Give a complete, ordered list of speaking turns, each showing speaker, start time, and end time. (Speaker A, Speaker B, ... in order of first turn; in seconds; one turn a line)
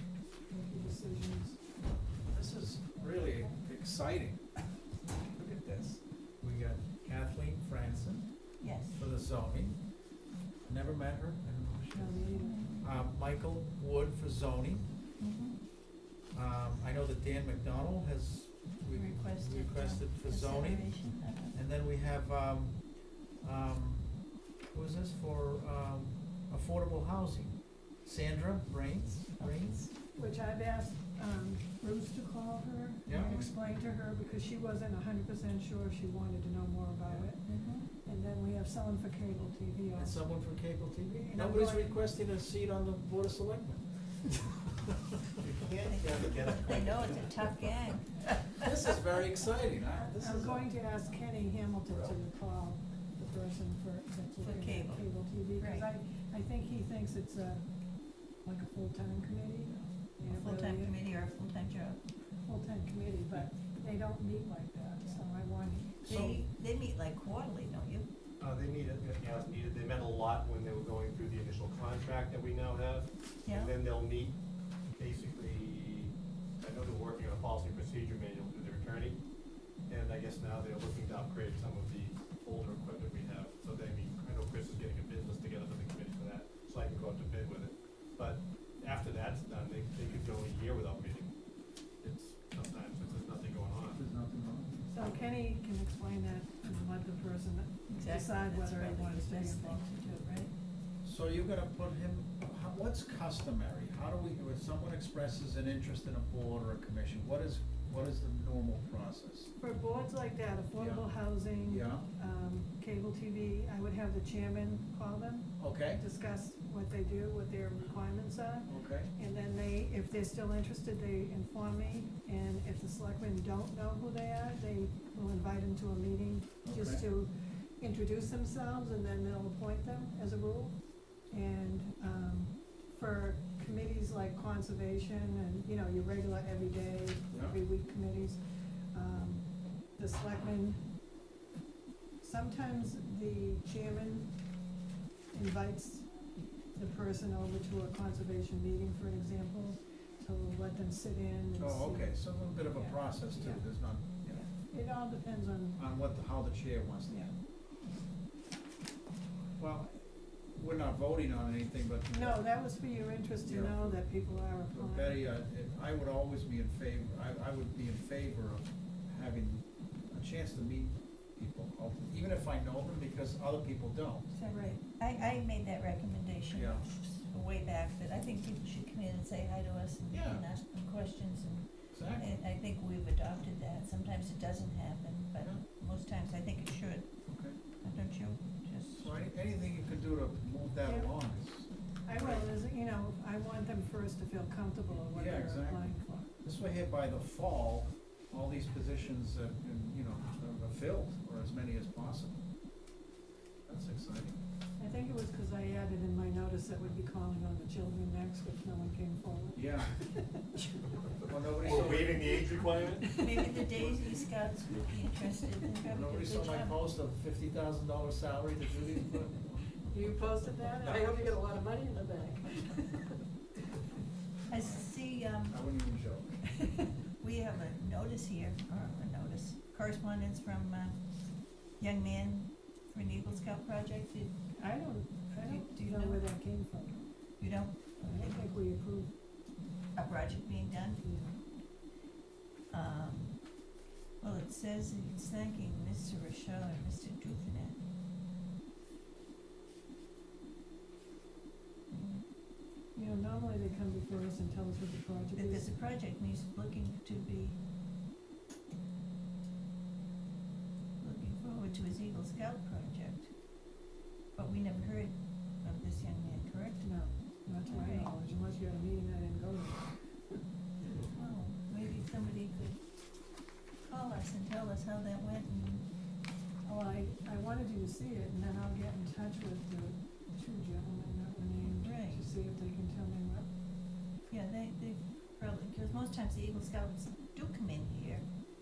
Speaker A: 0.5-1.6
Speaker B: 2.3-9.8
Speaker A: 3.0-3.5
Speaker C: 8.6-9.0
Speaker B: 10.7-14.9
Speaker A: 11.9-12.6
Speaker C: 12.3-12.9
Speaker C: 15.2-15.6
Speaker B: 16.3-29.9
Speaker C: 18.9-21.6
Speaker C: 29.4-29.9
Speaker A: 30.1-37.5
Speaker B: 33.1-33.5
Speaker C: 37.5-37.9
Speaker A: 38.0-40.2
Speaker B: 40.0-44.9
Speaker A: 41.3-42.0
Speaker D: 45.4-47.7
Speaker C: 45.8-48.6
Speaker B: 48.5-50.7
Speaker A: 50.0-57.6
Speaker C: 54.4-55.9
Speaker A: 58.4-61.0
Speaker C: 60.3-62.0
Speaker A: 62.4-66.3
Speaker B: 66.1-66.4
Speaker C: 66.1-68.1
Speaker D: 68.4-74.4
Speaker C: 73.5-73.8
Speaker D: 75.0-79.2
Speaker D: 79.9-91.4
Speaker D: 92.0-94.0
Speaker B: 94.0-94.8
Speaker A: 94.9-99.8
Speaker C: 97.9-100.5
Speaker B: 101.0-109.5
Speaker A: 109.6-130.8
Speaker B: 110.8-112.1
Speaker B: 115.6-116.0
Speaker B: 118.7-119.1
Speaker B: 126.6-127.0
Speaker A: 131.3-138.4
Speaker A: 138.9-139.5
Speaker A: 140.0-140.8
Speaker A: 142.2-144.3
Speaker A: 145.3-146.1
Speaker A: 146.8-152.1
Speaker B: 151.6-154.4
Speaker A: 152.7-153.7
Speaker A: 154.3-155.8
Speaker B: 155.8-157.3
Speaker B: 159.6-162.4
Speaker A: 162.1-165.2
Speaker B: 163.4-164.0
Speaker B: 164.7-174.3
Speaker C: 174.3-187.1
Speaker A: 174.5-174.8
Speaker B: 175.1-175.4
Speaker B: 176.5-176.8
Speaker B: 180.1-180.4
Speaker B: 181.9-182.3
Speaker B: 187.3-187.6
Speaker C: 187.8-189.2
Speaker B: 189.0-192.5
Speaker A: 190.8-191.1
Speaker A: 192.1-196.3
Speaker B: 195.1-202.4
Speaker B: 203.7-204.4
Speaker A: 204.8-210.6
Speaker B: 209.6-210.0
Speaker B: 211.2-212.5
Speaker D: 211.6-213.2
Speaker A: 213.0-213.6
Speaker C: 213.2-216.8
Speaker B: 215.9-219.7
Speaker A: 219.9-223.2
Speaker B: 220.8-221.3
Speaker C: 224.5-225.6
Speaker B: 224.5-224.9
Speaker B: 225.4-226.4
Speaker C: 227.2-231.0
Speaker C: 231.8-234.3
Speaker A: 234.6-237.0
Speaker C: 235.4-236.2
Speaker C: 237.4-238.5
Speaker A: 238.0-239.2
Speaker C: 240.0-241.1
Speaker A: 241.0-241.3
Speaker C: 242.7-243.4
Speaker C: 244.2-247.8
Speaker C: 251.9-252.2
Speaker A: 252.9-255.7
Speaker C: 255.3-257.6
Speaker C: 261.0-263.3
Speaker C: 264.4-266.9
Speaker A: 266.8-270.4
Speaker C: 267.6-268.1
Speaker C: 270.9-272.8
Speaker C: 273.9-275.9
Speaker A: 276.6-283.5
Speaker C: 281.6-282.2
Speaker C: 284.3-288.2